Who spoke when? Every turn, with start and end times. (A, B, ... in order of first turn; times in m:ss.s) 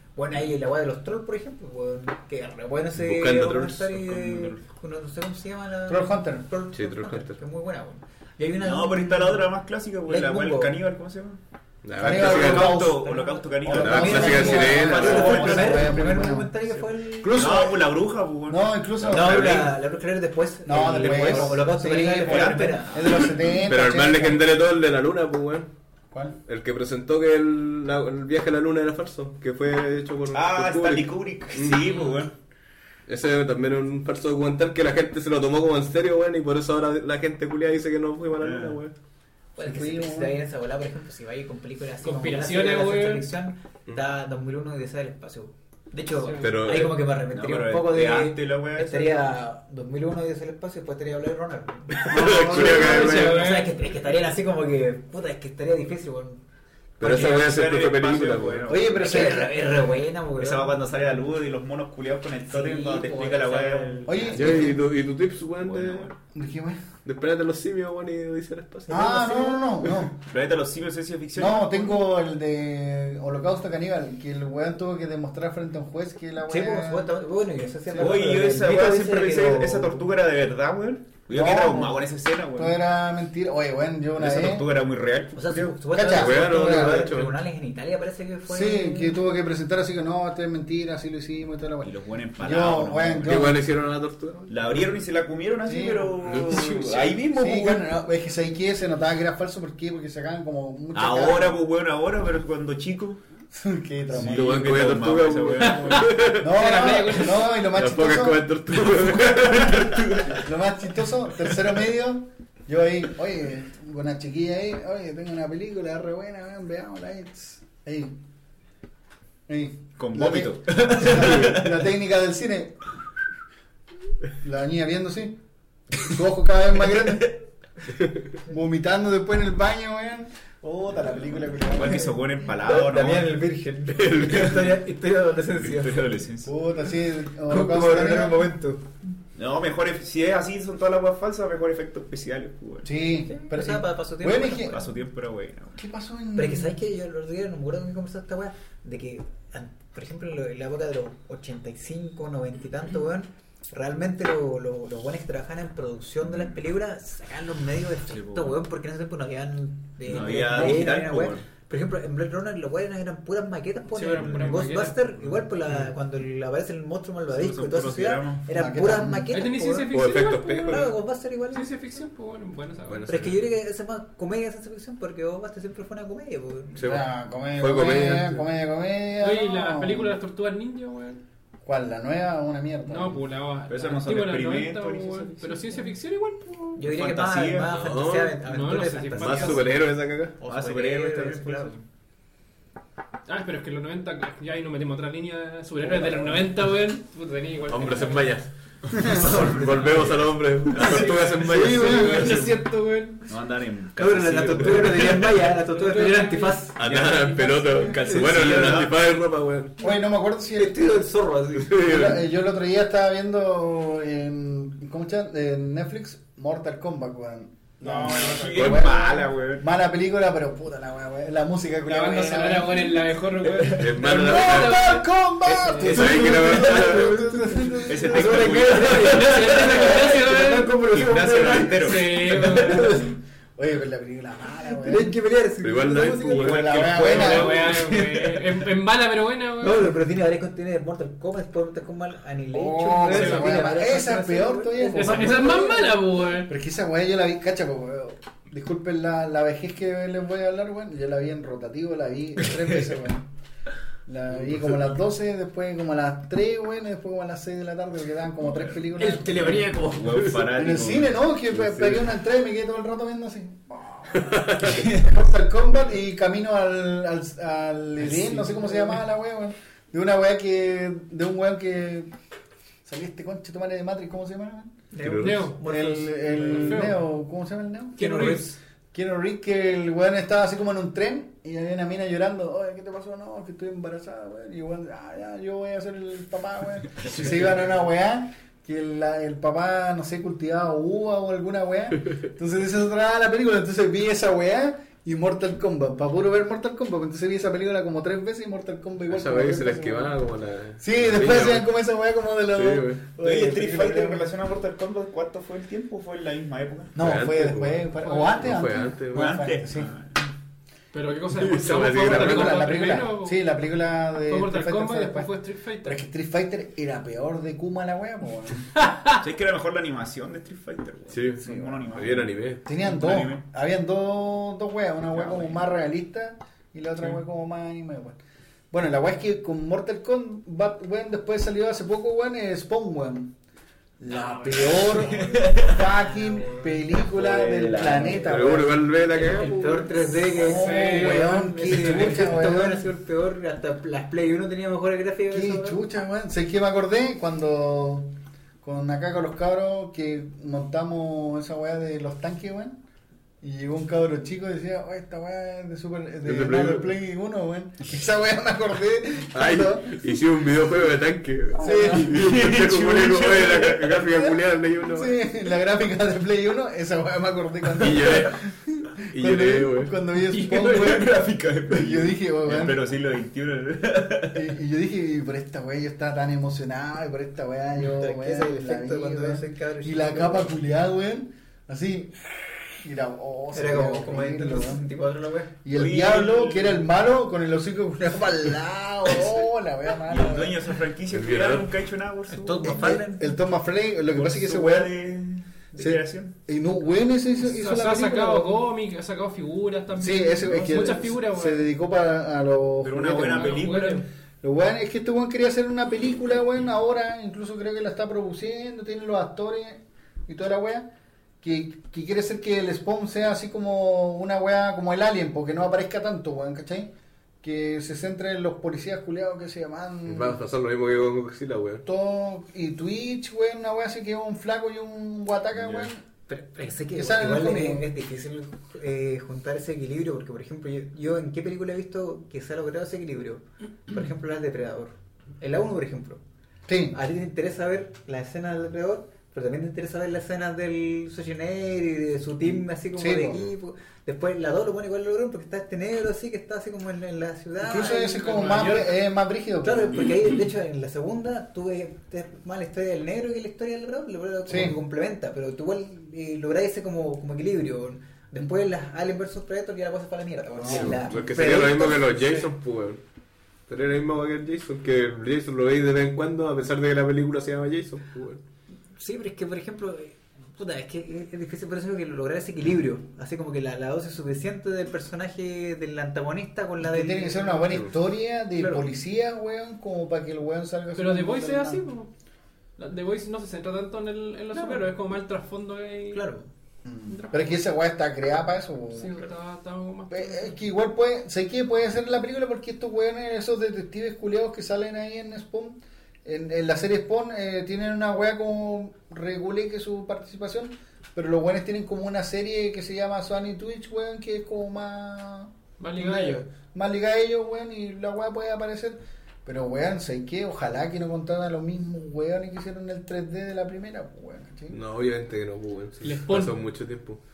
0:00.2-0:09.5 A
0:03.0-0:04.0 B
0:04.0-0:04.6 C
0:05.9-0:06.5 D
0:06.7-0:07.4 B
0:08.6-0:11.4 C
0:10.0-0:10.8 A
0:11.8-0:12.9 B
0:12.0-0:13.1 D
0:12.0-0:16.0 C
0:12.4-0:17.6 A
0:13.6-0:16.6 D
0:13.7-0:15.5 B
0:17.2-0:18.0 D
0:17.3-0:19.6 C
0:18.5-0:19.7 D
0:19.0-0:23.3 A
0:20.7-0:24.4 D
0:21.0-0:21.5 B
0:22.2-0:23.2 C
0:23.6-0:25.7 B
0:26.1-0:26.4 D
0:26.5-0:31.9 B
0:30.3-0:32.3 C
0:33.1-0:38.9 B
0:38.4-0:38.8 C
0:39.6-0:56.4 A
0:39.6-0:40.4 D
0:42.0-0:43.3 E
0:46.2-0:46.5 E
0:46.4-0:47.0 B
0:47.3-0:49.2 C
0:51.9-0:53.5 B
0:52.1-0:53.1 D
0:52.5-0:53.7 E
0:57.0-0:58.7 B
0:57.0-0:59.4 C
0:58.7-0:59.5 D
0:59.0-1:00.8 A
1:00.4-1:04.8 C
1:02.5-1:04.7 A
1:04.1-1:04.8 D
1:04.3-1:06.1 B
1:05.6-1:06.1 C
1:06.3-1:06.8 D
1:07.0-1:09.0 B
1:08.9-1:09.7 A
1:08.9-1:10.2 D
1:10.2-1:12.0 C
1:11.4-1:17.1 D
1:16.4-1:20.1 A
1:18.0-1:22.8 C
1:21.3-1:24.7 D
1:24.2-1:25.7 C
1:25.3-1:29.2 A
1:26.0-1:27.1 D
1:26.0-1:27.4 B
1:28.5-1:33.6 D
1:31.8-1:33.5 C
1:33.2-1:34.9 B
1:34.5-1:37.8 C
1:35.6-1:36.2 D
1:36.2-1:37.2 B
1:37.3-1:41.6 D
1:40.9-1:43.2 C
1:43.5-1:44.7 D
1:44.1-1:46.3 C
1:44.2-1:46.6 B
1:45.6-1:47.6 E
1:46.3-1:58.2 D
1:47.7-1:50.4 B
1:59.5-2:02.8 D
2:00.0-2:01.8 C
2:01.1-2:01.5 B
2:04.4-2:05.4 D
2:06.0-2:07.4 D
2:08.4-2:12.2 D
2:11.6-2:13.4 C
2:11.8-2:16.1 A
2:14.0-2:14.6 B
2:15.6-2:16.6 C
2:16.4-2:18.5 D
2:17.5-2:18.8 A
2:19.4-2:22.9 C
2:22.8-2:24.8 D
2:23.3-2:24.9 A
2:24.7-2:25.8 C
2:25.8-2:26.8 D
2:26.4-2:50.0 A
2:36.3-2:36.6 C
2:38.1-2:38.6 C
2:40.1-2:41.4 C
2:40.3-2:40.9 D
2:43.9-2:45.2 E
2:47.3-2:48.5 C
2:48.5-2:49.3 D
2:49.3-2:51.0 E
2:49.9-2:50.9 B
2:50.7-2:51.7 A
2:51.5-2:53.1 E
2:52.9-2:53.4 B
2:53.1-2:56.9 A
2:56.8-2:57.0 B
2:56.8-3:00.2 D
2:57.6-2:58.4 B
2:59.2-3:01.2 E
3:01.6-3:03.2 D
3:02.9-3:06.8 E
3:03.7-3:05.6 C
3:06.8-3:09.8 A
3:06.8-3:07.8 C
3:07.7-3:08.4 B
3:08.4-3:09.7 E
3:09.2-3:10.4 B
3:10.4-3:11.8 A
3:10.4-3:11.8 C
3:13.3-3:18.3 E
3:16.0-3:16.3 A
3:17.7-3:22.6 B
3:18.9-3:19.4 D
3:18.9-3:20.1 C
3:20.7-3:21.4 C
3:20.7-3:23.2 E
3:21.4-3:22.5 D
3:23.3-3:25.3 C
3:24.0-3:27.2 A
3:25.1-3:27.9 E
3:26.8-3:29.8 B
3:26.8-3:29.0 C
3:27.8-3:28.9 A
3:29.8-3:30.8 D
3:30.5-3:32.0 A
3:31.6-3:32.2 B
3:31.7-3:43.1 D
3:37.8-3:39.7 C
3:38.6-3:38.9 B
3:41.9-3:46.1 E
3:43.4-3:43.8 C
3:43.8-3:45.0 B
3:44.0-3:48.6 D
3:45.8-3:47.2 B
3:45.8-3:46.9 C
3:45.9-3:51.7 A
3:47.9-3:53.0 C
3:48.2-3:50.0 B
3:48.7-3:50.9 E
3:51.0-3:51.9 B
3:51.7-3:53.0 E
3:52.5-3:55.2 D
3:54.7-3:58.4 A
3:55.6-3:57.2 B
3:56.3-3:58.0 C
3:56.4-3:57.7 D
3:57.0-3:59.9 E
3:59.6-4:05.7 A
4:02.5-4:13.3 D
4:03.0-4:03.5 E
4:04.9-4:06.5 E
4:14.1-4:19.7 D
4:19.0-4:20.2 A
4:19.4-4:21.2 C
4:20.5-4:32.1 D
4:21.5-4:22.0 B
4:24.2-4:24.9 B
4:28.0-4:29.0 A
4:32.8-4:34.8 D
4:34.9-4:37.0 A
4:35.0-4:35.5 B
4:35.2-4:35.6 E
4:35.6-4:38.0 D
4:36.4-4:37.0 E
4:38.0-4:38.5 E
4:38.0-4:38.6 A
4:38.9-5:00.2 D
4:59.1-5:01.7 B
5:00.8-5:04.3 D
5:02.6-5:03.1 B
5:03.2-5:07.0 C
5:07.0-5:09.4 B
5:07.0-5:09.9 D
5:08.1-5:08.3 E
5:09.1-5:10.2 C
5:10.9-5:13.4 E
5:11.3-5:12.8 B
5:11.8-5:15.3 D
5:14.3-5:16.0 E
5:15.8-5:18.7 D
5:18.8-5:19.2 E
5:19.2-5:23.4 C
5:21.1-5:22.7 B
5:21.4-5:21.8 D
5:22.6-5:28.2 D
5:25.1-5:25.6 C
5:28.7-5:33.3 D
5:34.0-5:38.8 D
5:34.1-5:36.8 A
5:35.2-5:35.8 C
5:37.0-5:38.6 C
5:38.2-5:39.9 B
5:39.1-5:45.8 A
5:40.3-5:42.9 D
5:40.4-5:42.2 E
5:45.3-5:48.1 D
5:48.6-5:52.8 D
5:53.4-6:00.0 D
5:56.2-5:56.9 B
5:59.3-6:05.2 B
6:01.6-6:02.3 D
6:01.9-6:04.0 C
6:03.9-6:12.8 D
6:07.8-6:08.4 B
6:09.1-6:09.9 B
6:10.3-6:14.5 C
6:14.3-6:24.8 D
6:17.8-6:20.5 A
6:23.5-6:25.5 A
6:25.6-6:30.6 D
6:25.7-6:26.9 C
6:30.1-6:33.0 C
6:31.1-6:31.7 B
6:32.3-6:33.3 A
6:32.6-6:34.9 D
6:34.1-6:36.3 C
6:35.8-6:38.7 D
6:37.4-6:41.7 E
6:40.0-6:43.8 D
6:42.8-6:44.0 C
6:43.2-6:44.1 E
6:44.4-6:50.9 D
6:51.4-7:00.4 D
7:00.1-7:01.8 B
7:01.8-7:06.0 D
7:05.6-7:05.9 C
7:06.3-7:16.2 A
7:07.0-7:07.9 D
7:16.7-7:17.0 D
7:16.9-7:28.6 A
7:23.0-7:23.5 D
7:27.6-7:30.2 D
7:28.2-7:29.0 E
7:29.6-7:42.5 A
7:34.5-7:34.8 D
7:40.6-7:41.0 D
7:40.6-7:43.0 B
7:43.7-7:48.4 B
7:49.0-7:57.8 A
7:56.8-8:01.8 D
7:58.6-7:58.9 A
8:01.0-8:02.1 E
8:02.8-8:06.3 E
8:04.5-8:04.9 A
8:06.1-8:06.5 A
8:06.8-8:09.2 D
8:07.1-8:07.6 E
8:08.9-8:10.6 E
8:10.1-8:34.8 D
8:25.8-8:26.4 E
8:34.7-8:37.2 B
8:36.0-8:36.6 E